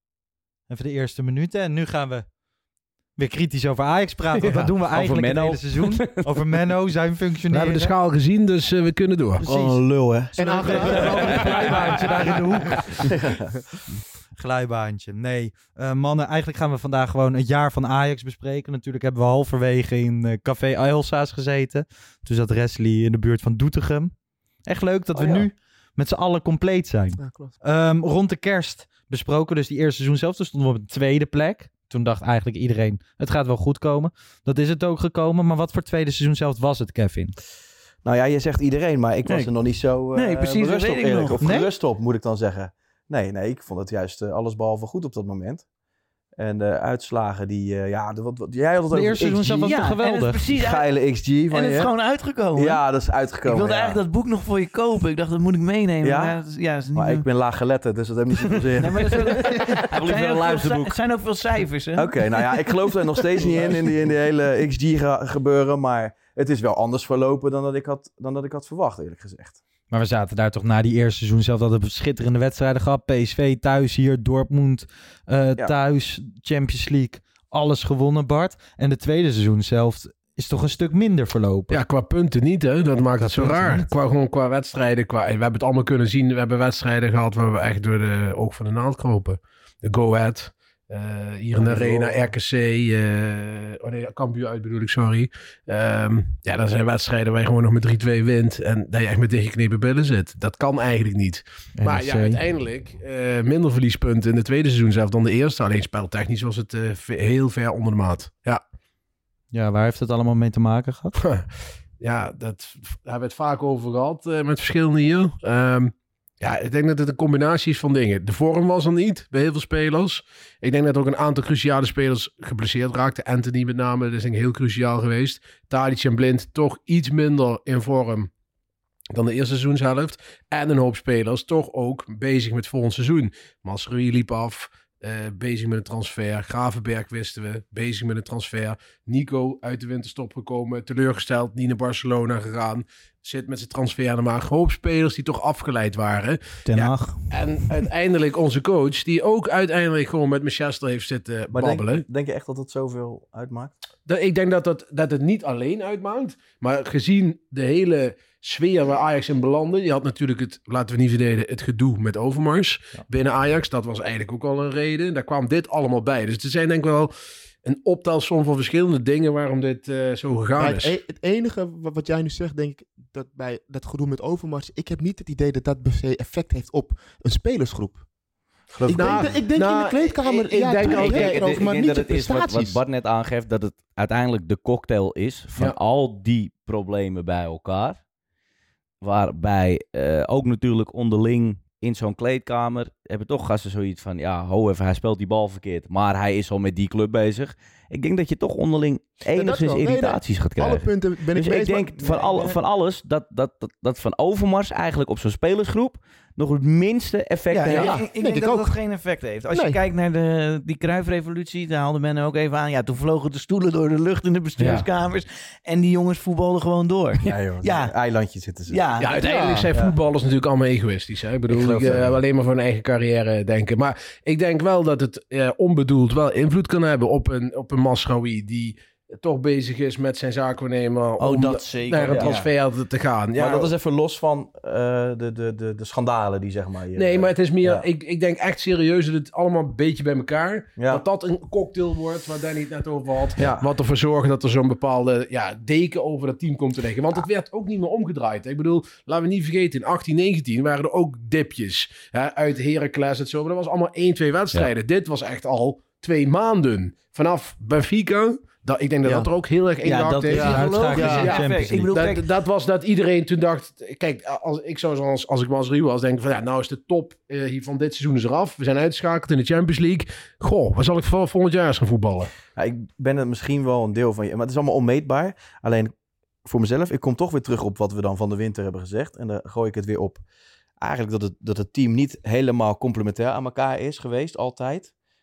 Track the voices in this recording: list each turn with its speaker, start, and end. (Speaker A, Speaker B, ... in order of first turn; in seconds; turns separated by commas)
Speaker A: 0.7-2.3, Speaker A: 3.2-7.9, Speaker B: 4.4-4.7, Speaker C: 4.8-6.5, Speaker B: 7.5-9.4, Speaker A: 9.4-9.9, Speaker D: 9.4-11.3, Speaker E: 10.4-12.4, Speaker A: 10.4-13.1, Speaker D: 13.0-13.4, Speaker A: 14.3-24.1, Speaker A: 24.6-37.4, Speaker E: 27.2-27.6, Speaker D: 38.0-45.6, Speaker F: 40.1-41.6, Speaker A: 41.4-41.7, Speaker D: 46.4-49.8, Speaker A: 48.9-50.5, Speaker F: 49.6-50.9, Speaker D: 50.5-51.9, Speaker F: 51.5-52.8, Speaker D: 52.5-54.0, Speaker F: 53.5-57.2, Speaker D: 56.0-56.4, Speaker D: 56.9-60.9, Speaker F: 58.8-62.7, Speaker C: 59.9-60.7, Speaker D: 62.0-69.6, Speaker A: 69.9-81.8, Speaker B: 81.7-108.6, Speaker A: 83.2-83.9, Speaker D: 91.7-92.0, Speaker A: 101.8-102.4, Speaker A: 109.5-111.1, Speaker B: 111.2-111.5, Speaker B: 112.0-128.3, Speaker B: 129.1-152.1, Speaker A: 146.7-147.3, Speaker D: 151.5-153.7, Speaker B: 154.1-167.1, Speaker B: 167.6-170.9, Speaker E: 170.6-178.0, Speaker D: 178.7-179.4, Speaker E: 178.8-182.8, Speaker B: 178.9-181.6, Speaker C: 180.8-188.0, Speaker C: 189.0-207.9, Speaker E: 199.3-202.4, Speaker F: 207.5-217.9, Speaker E: 207.7-208.8, Speaker E: 209.5-209.8, Speaker D: 214.6-214.9, Speaker B: 214.6-214.8, Speaker D: 217.2-218.8, Speaker F: 218.7-219.6, Speaker B: 219.0-233.7, Speaker E: 219.2-219.7, Speaker D: 221.5-222.2, Speaker C: 231.2-232.3, Speaker D: 232.1-232.5, Speaker D: 233.3-237.9, Speaker B: 237.0-272.3, Speaker D: 240.8-241.0, Speaker D: 243.4-243.7, Speaker E: 259.1-259.3, Speaker F: 259.8-262.3, Speaker E: 260.3-261.4, Speaker A: 260.4-262.0, Speaker D: 272.6-275.9, Speaker D: 276.4-280.2, Speaker D: 280.8-284.9